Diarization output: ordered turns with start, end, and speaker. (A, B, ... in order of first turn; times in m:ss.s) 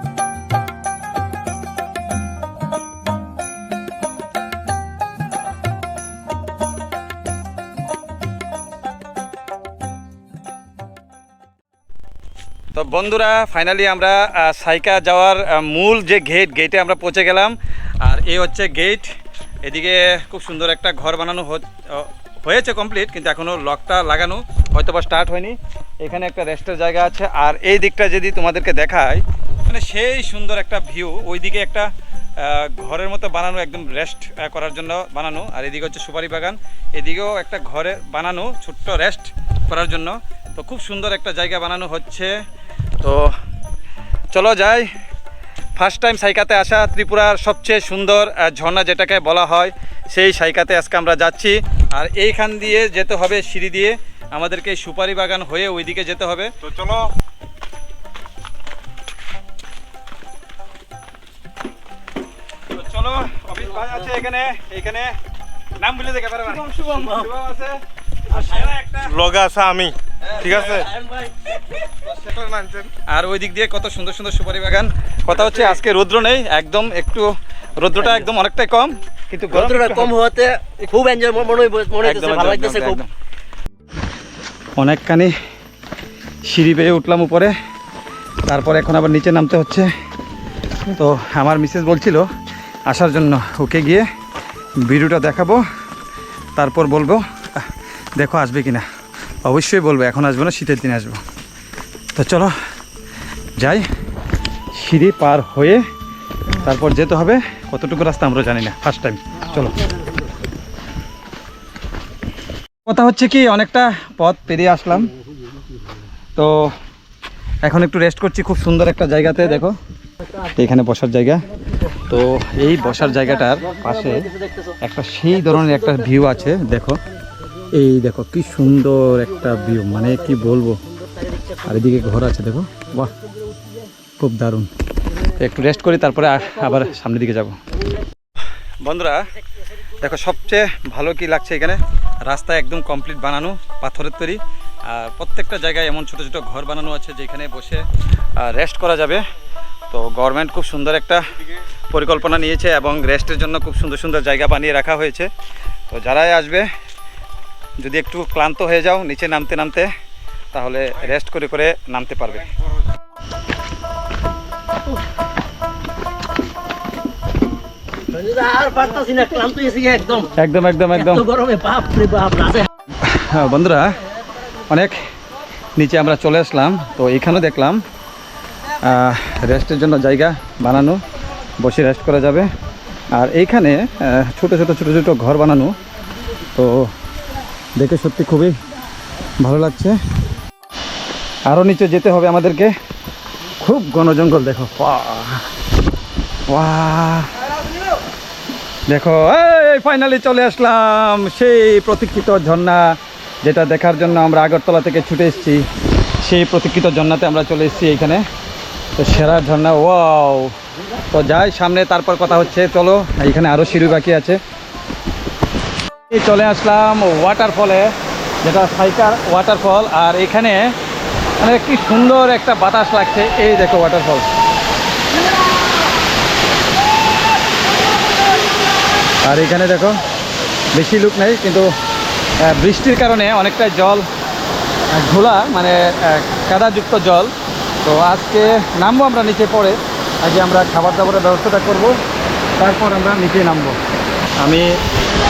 0:12.7-0:42.4 A
0:43.0-0:43.3 A
0:44.3-0:44.9 A
0:45.8-0:57.0 A
1:02.7-1:05.2 A
1:05.8-1:09.1 A
1:09.0-1:10.9 B
1:10.3-1:10.9 A
1:12.1-1:12.9 B
1:13.1-1:20.1 A
1:19.5-1:23.0 C
1:22.0-1:23.1 A
1:24.8-1:25.3 A
1:26.5-1:27.5 A
1:28.4-1:29.9 A
1:30.9-1:32.3 A
1:32.9-1:34.0 A
1:34.8-1:35.6 A
1:36.6-1:38.8 A
1:39.4-1:41.2 A
1:42.1-1:42.5 A
1:43.6-1:43.9 A
1:44.7-1:45.8 A
1:46.6-1:49.8 A
1:52.8-1:55.1 A
1:56.4-1:56.7 A
1:57.6-1:59.8 A
2:00.6-2:07.0 A
2:07.7-2:10.8 A
2:11.6-2:13.1 A
2:14.2-2:14.7 A
2:15.4-2:17.6 A
2:18.8-2:19.3 A
2:20.0-2:27.8 A
2:28.4-2:29.2 A
2:29.9-2:31.4 A
2:31.9-2:35.3 A
2:35.9-2:36.7 A
2:37.8-2:39.9 A
2:40.5-2:42.5 A
2:48.1-2:50.3 C
2:50.4-2:51.2 A
2:51.0-2:52.7 C
2:53.0-2:54.0 A
2:54.7-2:55.0 A
2:55.8-2:57.8 A
2:58.8-3:01.0 A
3:01.6-3:02.5 A
3:03.1-3:05.8 A
3:06.5-3:06.9 A
3:07.8-3:08.5 A
3:09.4-3:10.0 A
3:11.5-3:12.7 A
3:13.6-3:15.4 A
3:16.5-3:17.3 A
3:18.9-3:25.6 A
3:26.2-3:28.2 A
3:29.0-3:30.5 A
3:31.1-3:34.4 A
3:36.1-3:37.9 A
3:38.4-3:40.7 A
3:41.4-3:44.2 A
3:49.2-3:50.0 A
3:50.7-3:51.7 A
3:52.4-3:54.0 A
3:54.9-4:02.0 A
4:02.6-4:03.8 A
4:04.4-4:04.7 A